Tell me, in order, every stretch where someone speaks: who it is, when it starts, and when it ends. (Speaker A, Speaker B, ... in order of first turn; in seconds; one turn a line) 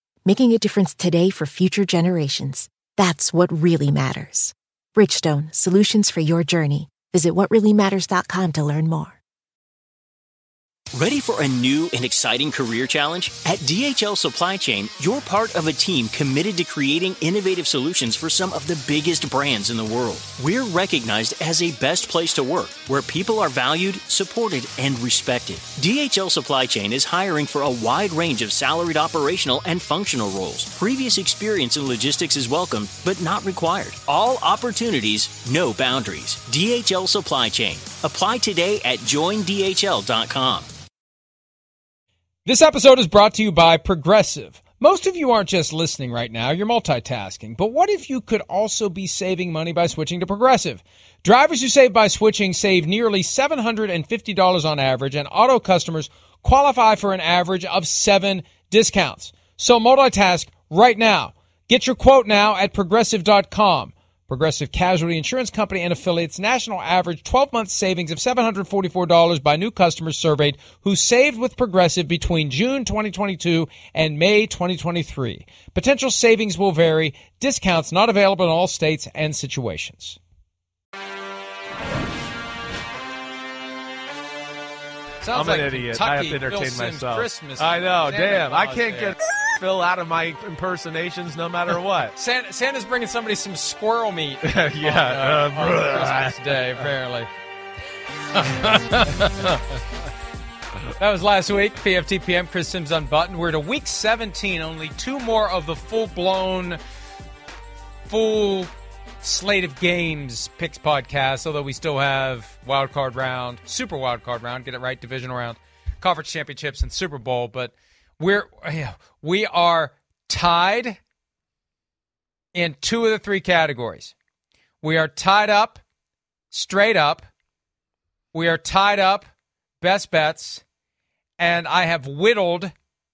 Speaker A: 0.2-9.2
Speaker B: 10.9-40.7
Speaker C: 42.5-80.2
Speaker C: 85.2-89.2
Speaker D: 85.3-92.2
Speaker C: 92.2-97.3
Speaker D: 94.4-96.8
Speaker C: 98.3-99.6
Speaker C: 101.0-106.8
Speaker C: 108.1-108.7
Speaker C: 109.2-121.0
Speaker C: 122.5-124.1
Speaker C: 124.8-125.8
Speaker C: 126.5-127.3
Speaker C: 128.3-129.3
Speaker C: 129.8-130.6
Speaker C: 131.4-132.7